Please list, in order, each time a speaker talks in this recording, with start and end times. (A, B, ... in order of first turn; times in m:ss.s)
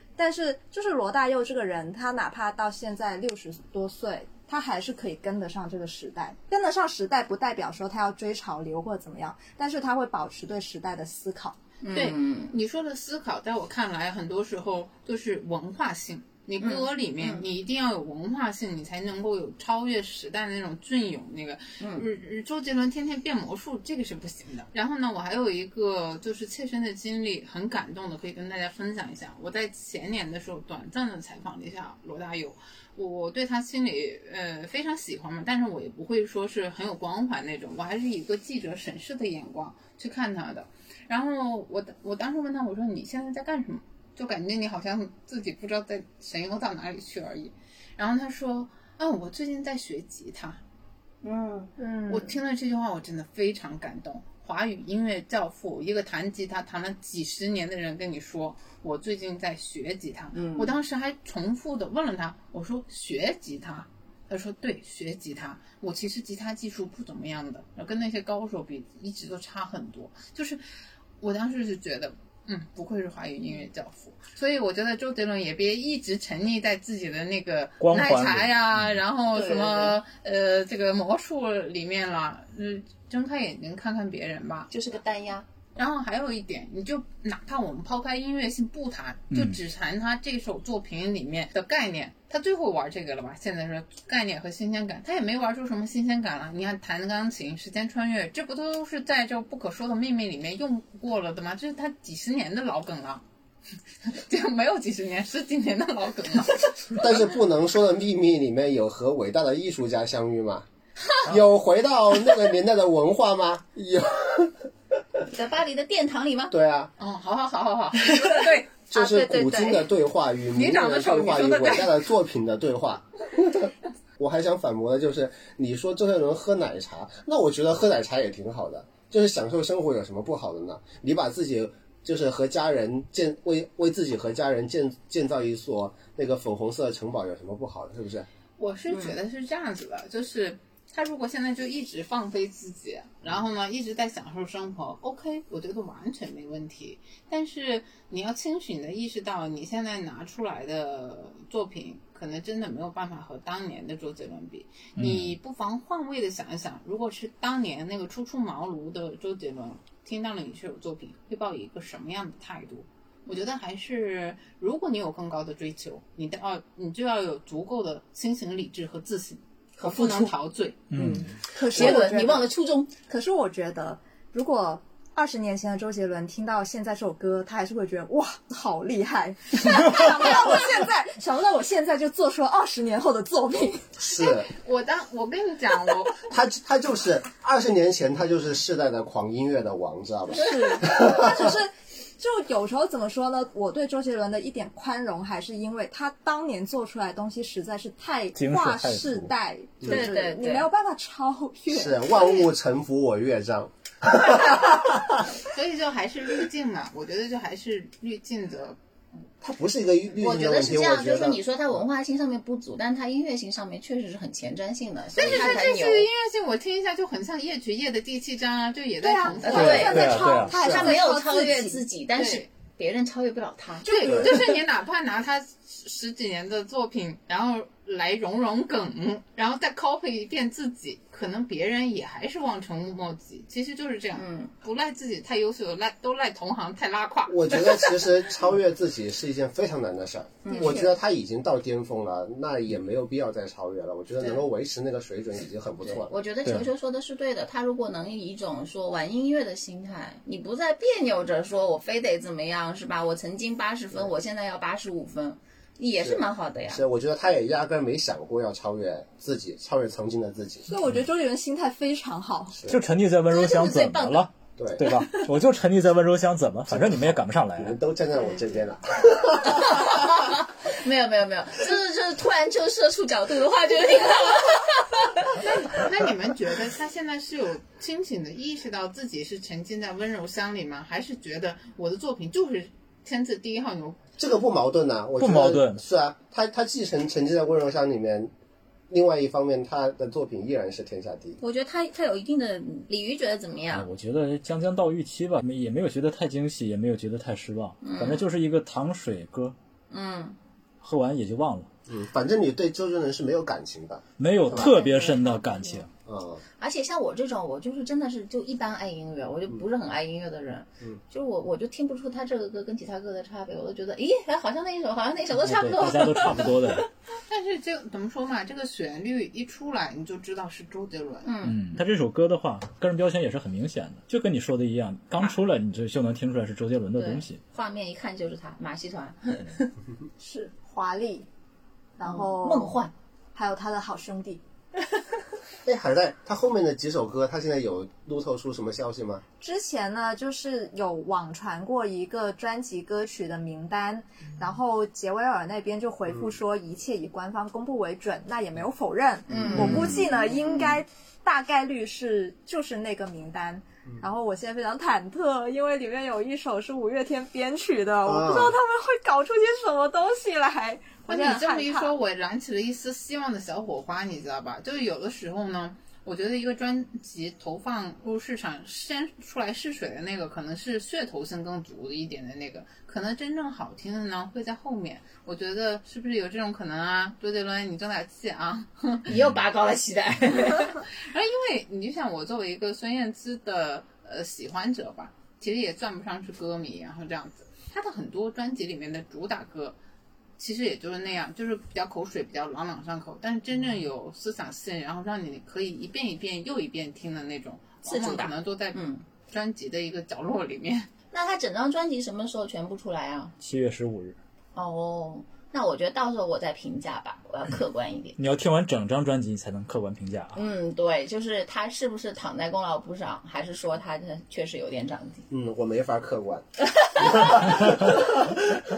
0:00.2-0:11.6 A
0:11.8-0:12.5 B
0:11.9-0:50.6 C
0:16.6-0:17.4 B
0:21.8-0:22.0 B
0:51.2-0:51.7 B
0:51.8-0:52.3 A
0:52.1-1:10.6 C
1:00.3-1:00.8 B
1:11.2-1:24.7 C
1:17.8-1:18.9 D
1:19.3-1:20.0 B
1:24.7-1:25.4 B
1:25.8-1:43.2 C
1:29.3-1:29.6 D
1:44.0-1:47.1 C
1:47.0-1:50.6 E
1:51.2-1:54.6 E
1:55.3-1:56.5 B
1:56.5-1:56.9 E
1:57.0-1:58.8 C
1:58.9-2:18.3 E
1:58.9-1:59.8 B
2:00.5-2:02.0 C
2:18.6-2:50.8 C
2:18.9-2:19.2 B
2:35.0-2:35.3 D
2:49.8-2:50.3 B
2:50.9-2:51.3 D
2:51.0-2:52.9 B
2:51.4-2:52.5 A
2:53.0-3:03.9 A
3:04.0-3:04.5 E
3:04.2-3:06.2 C
3:06.3-3:11.1 E
3:10.3-3:10.7 B
3:10.3-3:22.5 A
3:18.3-3:19.3 D
3:19.8-3:20.1 E
3:19.8-3:20.7 B
3:21.7-3:25.2 E
3:25.3-3:28.8 C
3:29.4-3:31.4 E
3:30.2-3:36.1 B
3:35.1-3:39.8 C
3:39.0-3:41.8 A
3:39.4-3:44.6 B
3:39.5-3:40.7 D
3:40.5-3:40.9 E
3:42.1-3:42.5 C
3:43.8-3:57.8 C
3:54.1-3:54.5 B
3:57.3-4:06.7 E
4:00.4-4:00.9 B
4:05.8-4:16.8 B
4:16.0-4:20.7 E
4:20.6-4:22.5 A
4:22.7-4:27.7 D
4:23.3-4:24.3 B
4:24.6-4:24.9 E
4:26.7-4:29.8 E
4:29.5-4:35.3 B
4:35.3-4:44.0 C
4:44.2-4:48.3 E
4:45.2-4:45.8 D
4:48.9-4:51.4 E
4:51.4-4:53.9 B
4:53.7-4:59.5 D
4:57.8-4:58.2 B
4:59.9-5:00.4 B
5:00.8-5:01.7 D
5:01.9-5:04.7 E
5:04.2-5:05.9 D
5:04.5-5:05.8 B
5:06.0-5:06.4 E
5:06.6-5:16.7 B
5:15.4-5:16.9 D
5:17.3-5:21.3 C
5:21.2-5:21.6 B
5:21.4-5:27.4 D
5:26.9-5:29.7 B
5:30.2-5:31.3 A
5:32.0-5:32.8 A
5:32.0-5:32.9 B
5:33.3-5:34.4 A
5:35.6-5:39.2 E
5:39.4-6:01.9 A
5:49.3-5:50.1 E
5:49.3-5:50.7 B
5:58.0-5:58.6 E
6:01.1-6:19.1 C
6:19.1-6:20.8 B
6:21.0-6:29.8 C
6:30.4-6:40.9 C
6:37.8-6:39.0 B
6:41.1-6:43.3 B
6:43.4-6:44.2 D
6:44.5-6:48.2 B
6:48.2-6:50.4 D
6:50.3-6:55.2 B
6:55.3-6:58.1 E